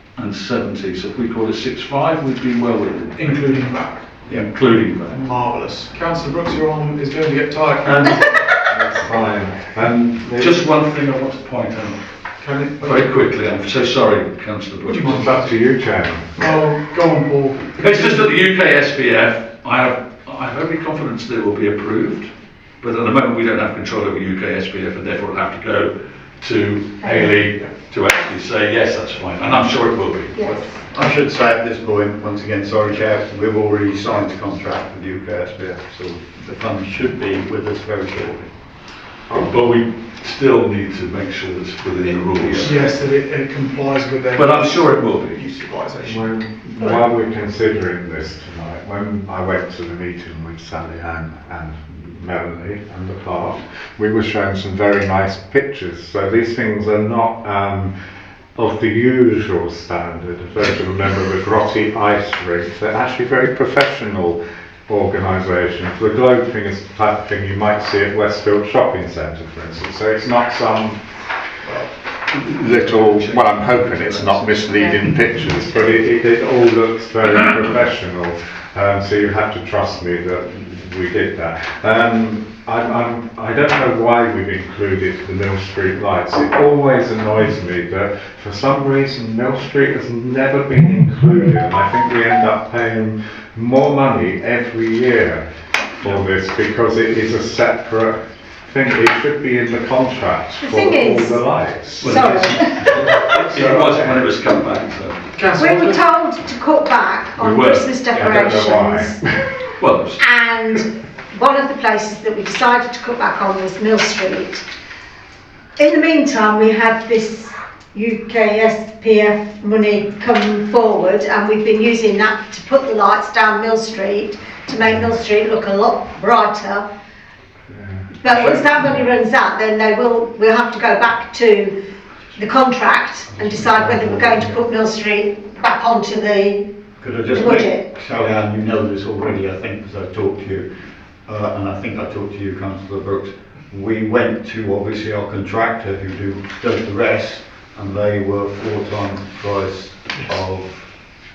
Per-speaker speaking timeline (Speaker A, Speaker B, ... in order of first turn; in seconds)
Speaker A: 0.2-3.4, 4.3-5.2, 7.9-8.2, 10.4-12.0, 12.8-15.3, 17.8-30.4, 39.4-42.9, 44.4-45.5, 72.5-75.0, 102.0-105.2, 107.4-108.0, 109.8-110.2
Speaker B: 3.2-8.4, 12.4-13.1, 14.8-15.5, 16.4-18.3, 42.3-46.4, 71.6-71.9, 105.4-106.0
Speaker C: 8.7-10.6, 15.1-16.3, 39.3-39.5, 46.0-57.9, 58.6-71.0, 72.3-95.4, 96.0-102.4, 103.5-104.2, 108.1-109.3, 127.7-128.0
Speaker D: 27.0-27.4, 30.3-30.7, 100.6-101.4, 102.0-103.1, 105.6-109.2, 110.2-114.6, 115.8-126.9, 128.2-131.8, 132.3-136.7, 137.3-137.9
Speaker E: 30.4-38.5, 133.3-134.5, 137.0-140.7, 141.2-150.9